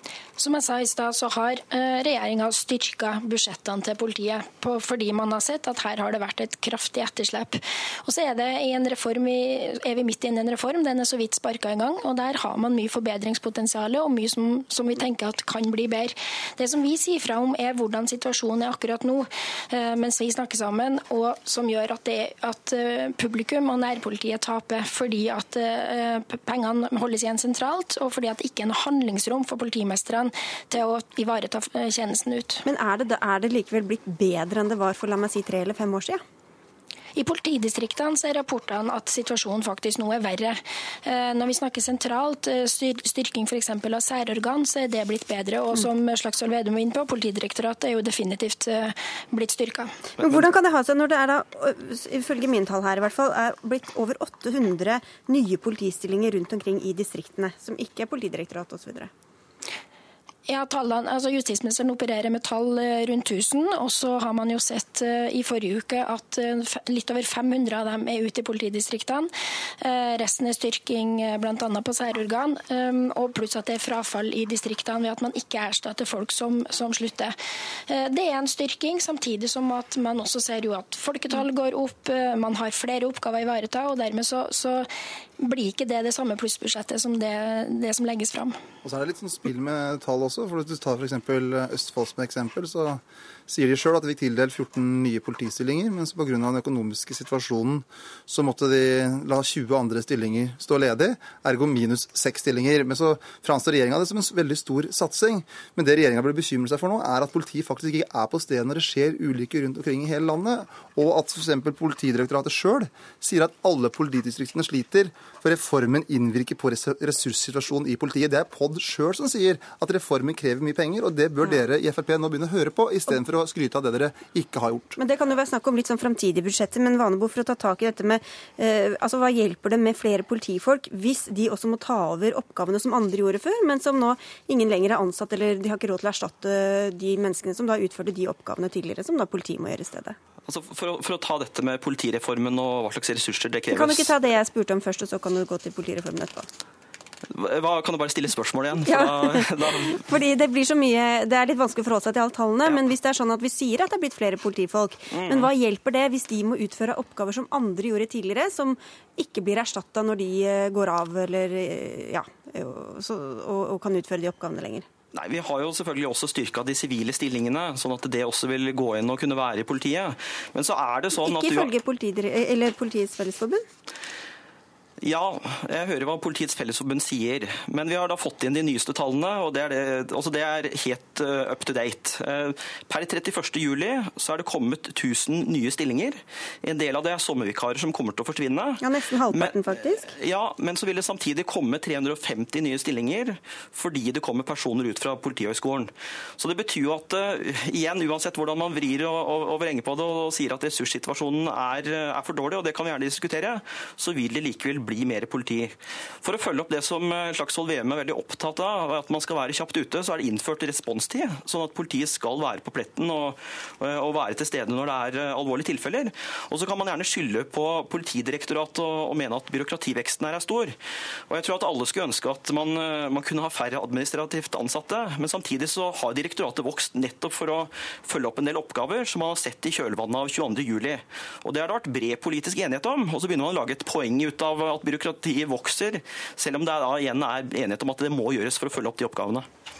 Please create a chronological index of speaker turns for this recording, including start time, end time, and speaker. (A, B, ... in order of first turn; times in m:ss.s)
0:00.4-0:32.6 A
0:32.6-0:36.2 B
0:37.2-0:49.9 A
0:50.2-0:59.1 B
0:50.2-0:50.4 C
1:00.5-1:09.3 A
1:09.8-1:17.3 A
1:17.9-1:24.9 A
1:25.4-1:28.5 A
1:28.8-2:05.0 D
2:05.0-2:20.2 B
2:20.4-2:24.1 C
2:23.7-2:26.5 B
2:27.3-2:30.0 C
2:28.8-2:44.9 B
2:35.1-2:35.5 C
2:45.1-2:51.7 C
2:51.2-2:53.6 B
2:55.0-3:40.7 C
3:08.8-3:10.1 B
3:41.3-3:59.5 C